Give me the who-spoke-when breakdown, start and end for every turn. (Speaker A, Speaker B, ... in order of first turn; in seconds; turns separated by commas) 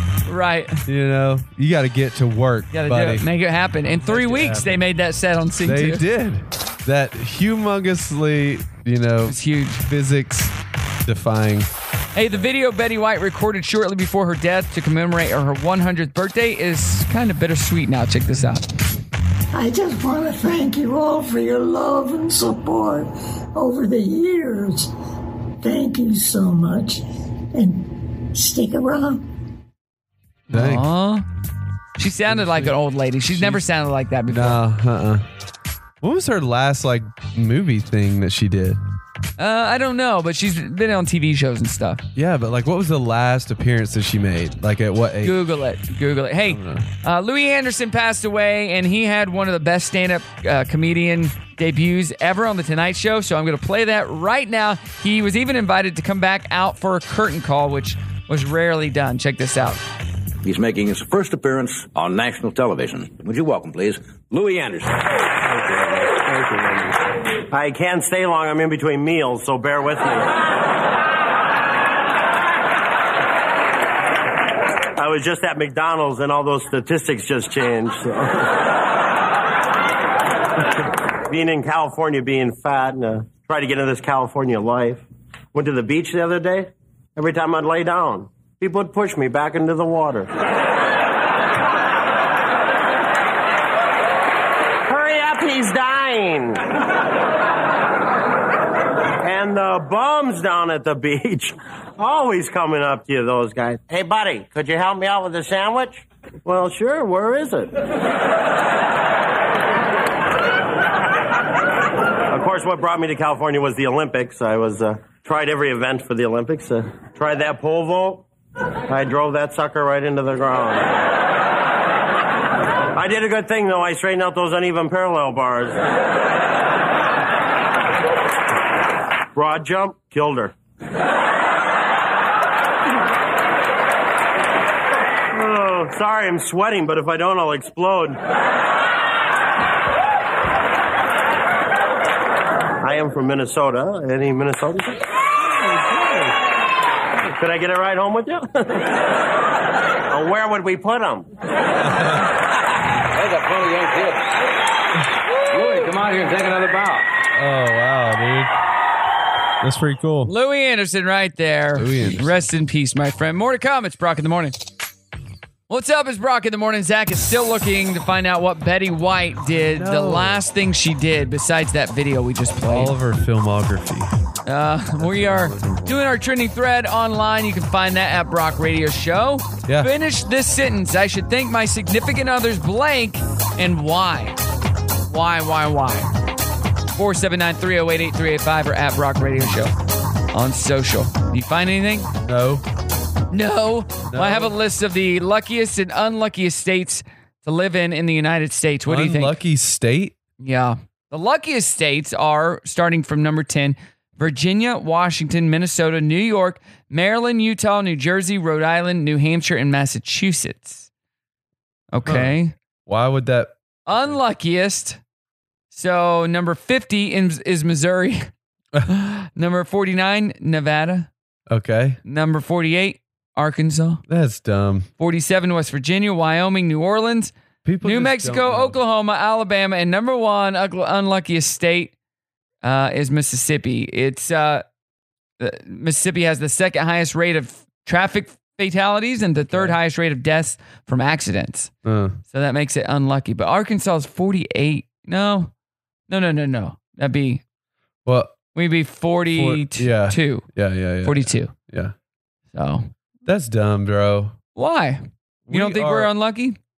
Speaker A: 0.2-0.8, Speaker B: 0.9-3.2, Speaker A: 2.7-6.0, Speaker B: 3.9-4.8, Speaker B: 5.6-10.5, Speaker A: 9.3-9.8, Speaker B: 11.0-11.7, Speaker A: 12.1-18.7, Speaker C: 19.5-24.9, Speaker C: 25.6-29.3, Speaker A: 30.5-31.2, Speaker B: 30.5-30.9, Speaker A: 32.0-34.6, Speaker B: 32.2-33.6, Speaker B: 34.3-35.2, Speaker B: 36.0-38.8, Speaker A: 39.4-42.0, Speaker B: 42.1-45.4, Speaker A: 45.2-59.8, Speaker B: 46.5-46.9, Speaker D: 60.4-64.9, Speaker E: 65.5-65.8, Speaker E: 67.5-70.3, Speaker E: 75.0-78.5, Speaker E: 81.3-85.0, Speaker E: 85.5-90.3, Speaker E: 94.8-96.6, Speaker E: 99.2-107.7, Speaker E: 112.3-118.2, Speaker E: 118.9-121.0, Speaker E: 122.9-125.8, Speaker E: 129.3-130.5, Speaker E: 135.3-138.2, Speaker E: 142.8-145.0, Speaker E: 147.3-148.8, Speaker E: 150.1-151.2, Speaker B: 151.8-152.3, Speaker D: 155.9-156.7, Speaker B: 157.3-158.5, Speaker B: 159.6-160.3, Speaker A: 160.2-164.5, Speaker B: 161.7-162.4, Speaker A: 165.7-172.9, Speaker B: 169.5-170.4, Speaker B: 172.6-174.1, Speaker A: 174.4-184.3, Speaker B: 175.0-175.9, Speaker A: 185.1-186.1, Speaker A: 186.9-189.7, Speaker A: 190.3-192.1, Speaker B: 192.2-192.6, Speaker A: 193.3-199.3, Speaker B: 194.1-194.6, Speaker B: 198.8-200.2, Speaker A: 200.4-210.8, Speaker A: 211.9-212.5, Speaker B: 212.1-212.3, Speaker B: 212.8-214.2, Speaker A: 213.9-215.0, Speaker A: 215.7-218.3, Speaker A: 218.9-221.1, Speaker B: 221.5-222.0, Speaker A: 222.0-224.0, Speaker B: 224.1-224.9, Speaker A: 225.0-231.9, Speaker B: 227.6-228.8, Speaker A: 232.6-234.6, Speaker A: 235.4-241.7, Speaker B: 239.5-239.8, Speaker B: 241.8-242.2, Speaker A: 242.3-245.5, Speaker A: 246.1-247.4, Speaker B: 248.1-248.3, Speaker A: 248.5-250.4, Speaker B: 249.3-251.9, Speaker A: 251.0-251.5, Speaker A: 252.5-252.9, Speaker B: 253.2-254.3, Speaker A: 254.6-256.6, Speaker B: 255.4-256.1